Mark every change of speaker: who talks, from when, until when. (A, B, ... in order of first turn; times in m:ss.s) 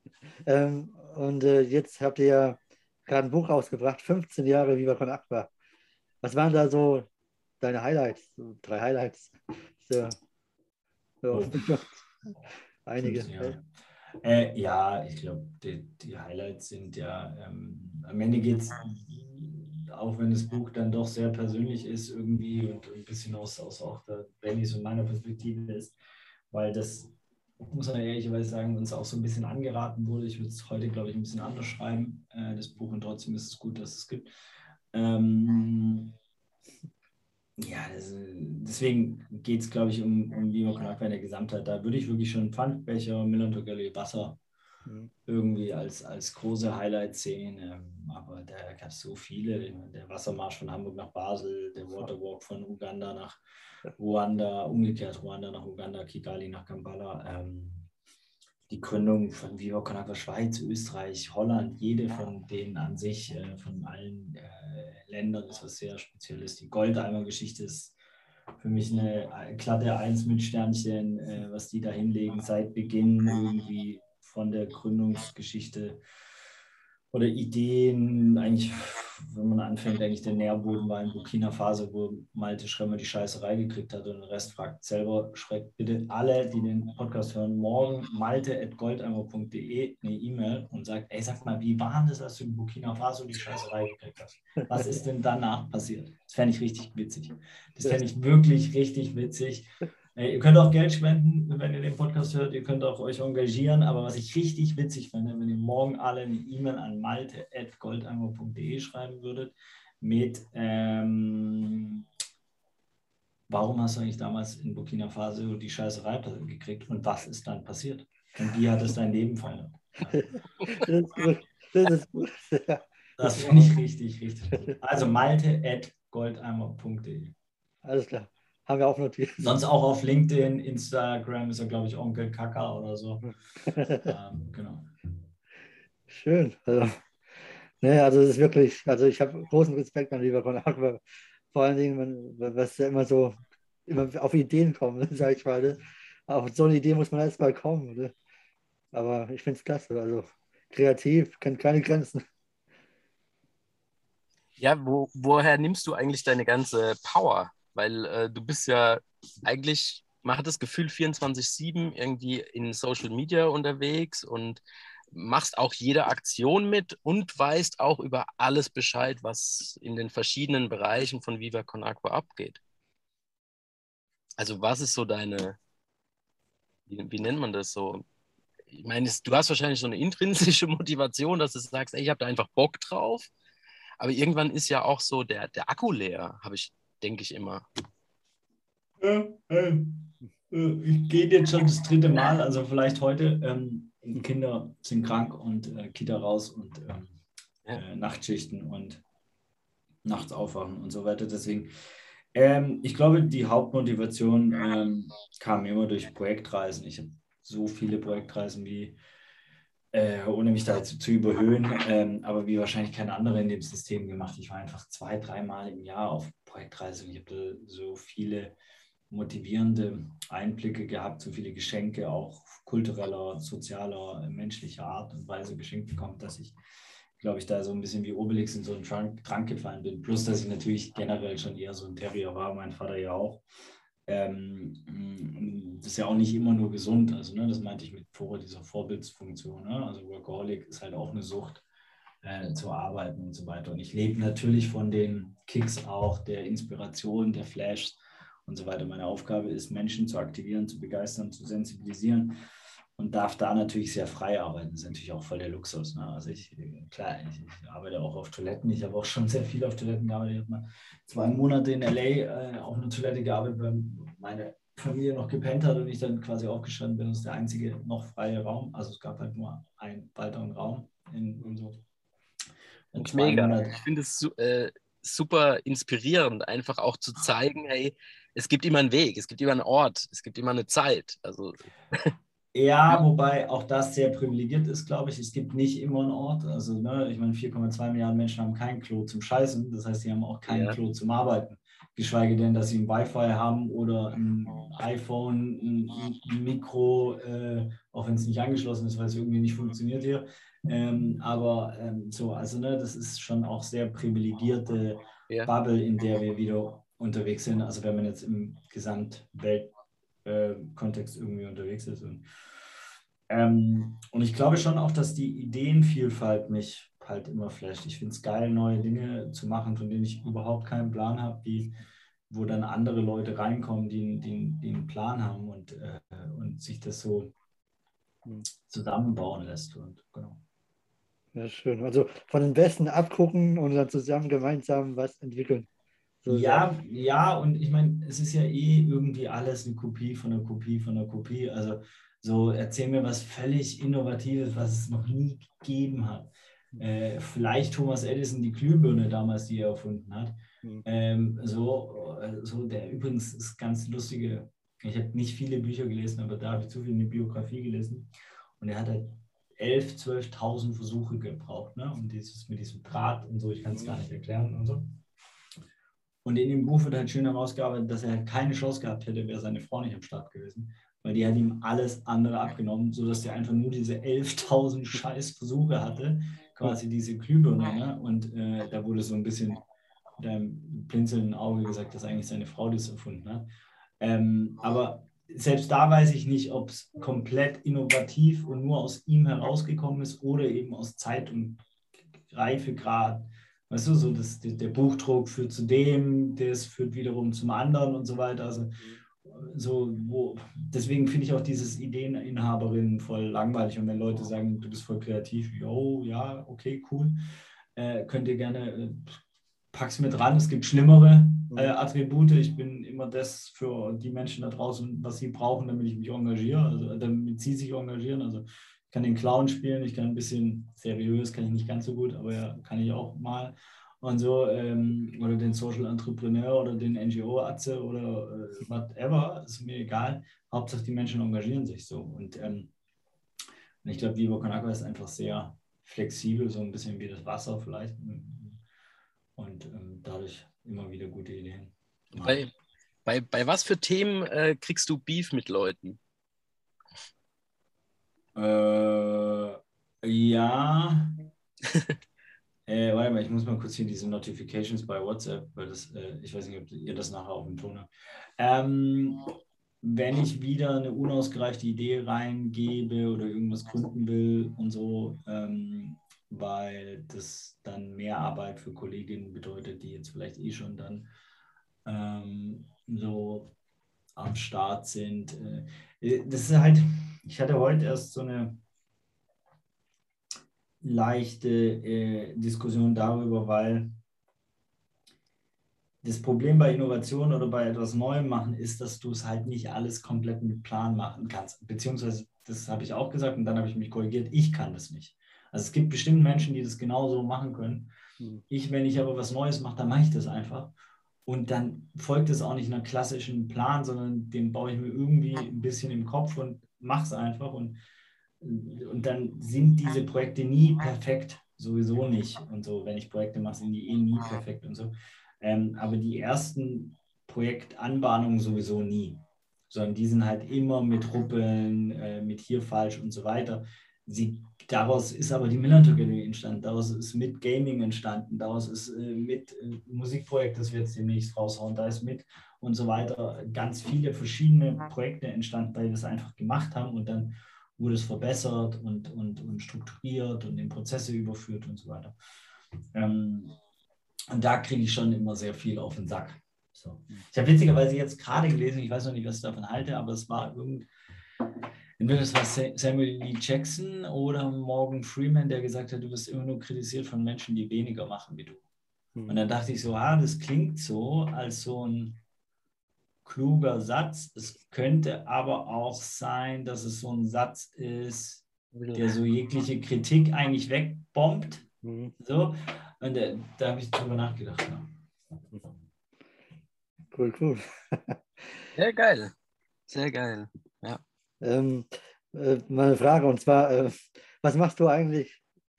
0:00.5-0:05.5 A
0:06.2-0:07.1 A
0:07.6-0:10.2 A
0:11.2-0:11.9 A
0:11.3-0:11.6 B
0:12.8-0:13.6 A
0:13.0-0:13.6 B
0:14.2-0:26.0 B
0:26.5-0:34.3 B
0:34.9-0:36.1 B
0:37.6-0:44.4 B
0:44.9-0:45.1 A
0:45.3-0:53.4 B
0:54.0-0:57.9 B
0:58.7-1:08.0 B
1:08.6-1:16.0 B
1:17.1-1:52.1 B
1:53.5-2:00.3 B
2:00.1-2:03.8 A
2:03.2-2:07.3 B
2:07.8-2:09.5 A
2:09.4-2:13.3 B
2:13.7-2:14.1 A
2:13.9-2:14.9 B
2:16.1-2:17.0 A
2:17.8-2:28.1 A
2:28.9-2:32.2 A
2:34.6-2:44.6 C
2:45.1-2:52.6 C
2:54.4-2:55.6 C
2:56.9-2:58.0 C
2:58.7-3:03.3 C
3:04.0-3:07.7 C
3:09.0-3:17.2 B
3:17.8-3:19.0 B
3:20.0-3:21.7 B
3:22.3-3:29.0 B
3:29.9-3:38.6 B
3:39.1-3:46.6 B
3:47.2-3:53.4 B
3:54.1-4:01.6 B
4:02.2-4:12.4 B
4:13.0-4:31.8 B
4:32.9-4:33.8 B
4:33.0-4:42.1 C
4:42.5-5:09.7 B
4:50.5-4:50.8 C
5:10.2-5:12.2 B
5:13.3-5:27.3 B
5:28.7-5:30.4 B
5:31.3-5:35.7 A
5:36.2-5:36.7 A
5:36.3-6:05.0 B
6:06.2-6:19.6 B
6:20.2-6:23.5 B
6:24.0-6:31.6 B
6:32.2-6:47.2 B
6:47.8-6:49.2 B
6:49.7-7:12.7 B
7:13.8-7:18.6 B
7:19.4-7:22.5 B
7:22.2-7:22.5 C
7:23.1-7:26.0 C
7:28.4-7:31.3 B
7:32.7-7:39.3 B
7:39.8-7:51.1 B
7:51.9-7:53.5 B
7:54.2-7:58.6 B
8:00.8-8:03.9 B
8:06.0-8:17.9 B
8:18.5-8:20.7 B
8:21.3-8:27.8 B
8:28.4-9:02.2 B
9:02.9-9:03.6 B
9:04.3-9:10.9 B
9:12.0-9:18.6 B
9:19.2-9:19.4 A
9:19.3-9:22.2 B
9:23.2-9:31.6 B
9:28.8-9:29.0 A
9:31.8-9:32.1 A
9:32.2-9:34.9 B
9:37.1-9:38.2 A
9:38.8-9:39.3 C
9:39.9-9:41.0 C
9:41.4-9:45.4 A